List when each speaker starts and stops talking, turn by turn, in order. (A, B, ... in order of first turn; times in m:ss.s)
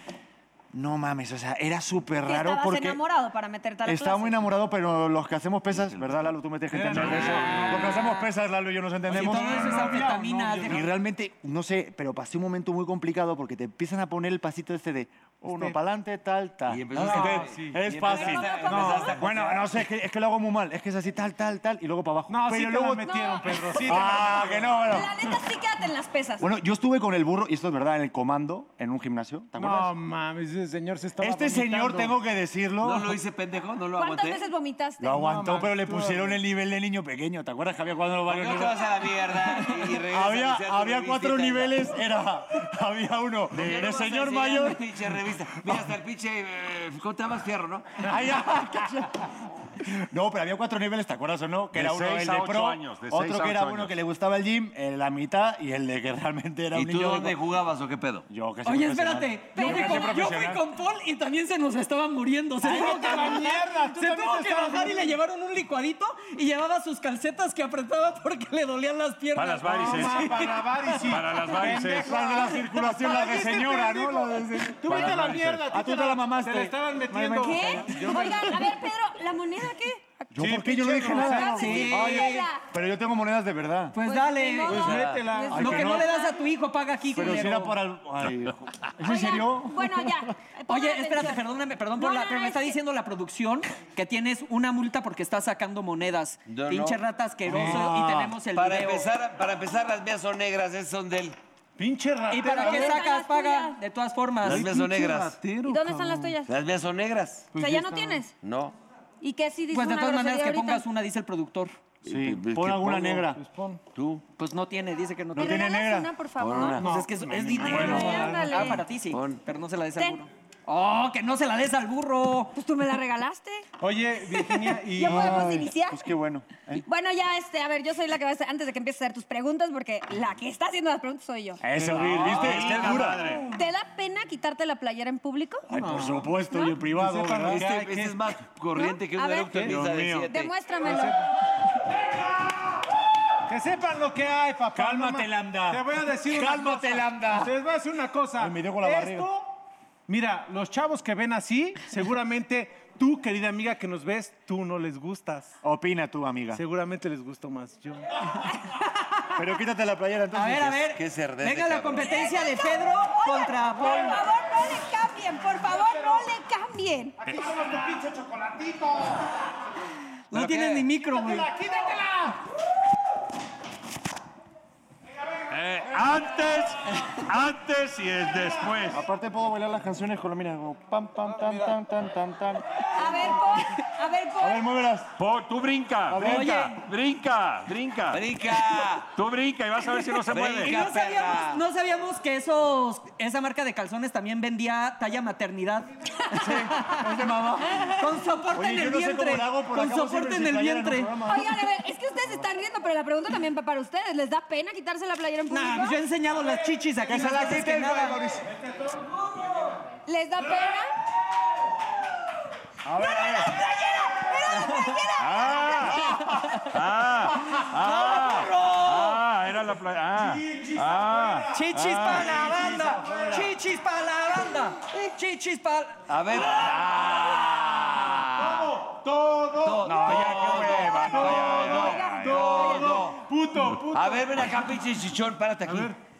0:00.7-0:03.0 A
0:02.2-0:04.4 B
0:03.8-0:23.2 A
0:06.7-0:08.2 C
0:06.9-0:07.9 D
0:07.4-0:07.8 E
0:09.1-0:10.9 C
0:09.1-0:10.8 E
0:15.4-0:15.8 C
0:16.7-0:19.8 F
0:16.9-0:17.9 C
0:18.0-0:19.2 B
0:18.6-0:19.2 C
0:22.3-0:24.8 C
0:23.0-0:26.5 B
0:23.7-0:25.4 A
0:26.4-0:30.0 A
0:29.5-0:32.1 C
0:31.2-0:33.2 A
0:32.8-0:34.4 F
0:34.0-0:35.3 B
0:35.0-0:44.8 A
0:35.2-0:36.4 C
0:38.3-0:41.9 F
0:43.5-0:44.0 D
0:43.5-0:48.1 F
0:48.0-0:57.4 A
0:51.7-0:53.9 D
0:56.7-0:58.2 F
0:58.3-1:00.7 A
0:58.6-1:10.9 E
0:59.6-1:00.2 B
1:02.6-1:05.1 C
1:09.3-1:12.2 D
1:09.8-1:18.8 C
1:11.9-1:15.2 A
1:12.2-1:12.5 B
1:14.9-1:15.6 D
1:15.7-1:18.5 A
1:17.4-1:20.3 B
1:20.3-1:24.0 A
1:20.3-1:22.3 C
1:21.1-1:22.6 B
1:21.2-1:22.5 E
1:23.9-1:27.7 E
1:24.0-1:26.4 B
1:24.6-1:25.9 C
1:24.7-1:25.2 F
1:25.5-1:26.1 A
1:27.1-1:30.3 A
1:29.0-1:32.8 B
1:30.7-1:39.1 E
1:36.5-1:37.0 F
1:37.4-1:38.3 A
1:37.5-1:37.9 C
1:38.5-1:41.4 F
1:41.8-1:43.0 C
1:42.3-1:44.7 E
1:42.4-1:43.8 B
1:44.4-1:45.4 F
1:44.4-1:46.4 C
1:45.6-1:46.5 B
1:46.4-1:47.6 F
1:47.5-1:48.2 C
1:47.5-1:48.3 B
1:48.4-1:48.7 F
1:49.2-1:50.8 B
1:49.7-1:51.7 E
1:52.0-1:53.3 F
1:52.0-1:53.4 A
1:53.3-1:53.8 C
1:53.9-1:54.2 F
1:54.4-1:55.7 E
1:55.3-1:56.1 A
1:55.4-1:56.9 B
1:56.4-1:56.8 F
1:56.8-2:02.5 E
1:56.8-1:58.4 C
1:57.2-1:58.7 A
1:57.6-1:58.8 B
1:59.1-1:59.4 F
2:00.0-2:00.2 B
2:02.5-2:03.7 B
2:03.8-2:05.5 C
2:04.2-2:06.0 B
2:05.0-2:06.8 A
2:06.8-2:11.6 B
2:11.6-2:13.2 A
2:11.8-2:13.5 D
2:11.9-2:12.6 C
2:12.1-2:13.0 F
2:12.7-2:15.7 B
2:15.7-2:17.6 A
2:15.7-2:18.4 C
2:16.5-2:16.8 B
2:17.5-2:20.5 F
2:18.7-2:19.6 B
2:19.6-2:20.3 A
2:20.2-2:21.2 B
2:20.8-2:21.2 C
2:23.5-2:29.6 C
2:24.7-2:27.5 A
2:28.4-2:29.3 A
2:30.1-2:35.6 C
2:35.6-2:36.6 A
2:36.5-2:38.2 C
2:38.6-2:39.3 B
2:39.3-2:40.9 A
2:40.3-2:44.2 E
2:40.9-2:42.4 F
2:42.0-2:47.2 B
2:45.8-2:46.3 C
2:47.2-2:49.2 C
2:50.3-2:51.5 E
2:50.3-2:50.9 F
2:51.0-2:52.4 C
2:55.5-2:59.0 D
2:58.8-3:03.4 A
3:01.2-3:01.8 C
3:03.0-3:04.6 B
3:04.4-3:05.1 A
3:05.2-3:08.2 D
3:06.1-3:06.7 A
3:06.2-3:06.8 E
3:08.1-3:09.1 F
3:09.0-3:10.7 D
3:10.3-3:11.6 F
3:10.6-3:15.9 E
3:16.3-3:17.9 A
3:16.4-3:17.0 B
3:18.0-3:21.1 E
3:18.5-3:21.6 A
3:21.2-3:26.0 B
3:25.5-3:28.2 E
3:27.0-3:28.5 A
3:30.0-3:30.9 B
3:32.8-3:33.6 A
3:33.0-3:36.2 B
3:33.4-3:35.0 E
3:35.2-3:42.4 D
3:35.8-3:36.5 A
3:37.8-3:39.2 E
3:40.1-3:43.4 C
3:41.5-3:46.0 E
3:42.3-3:43.5 A
3:46.1-3:48.7 F
3:46.6-3:50.3 C
3:49.6-3:53.2 F
3:49.8-3:52.2 A
3:49.8-3:51.8 D
3:50.9-3:54.8 C
3:51.2-3:53.0 B
3:53.9-3:55.9 F
3:55.6-3:56.0 C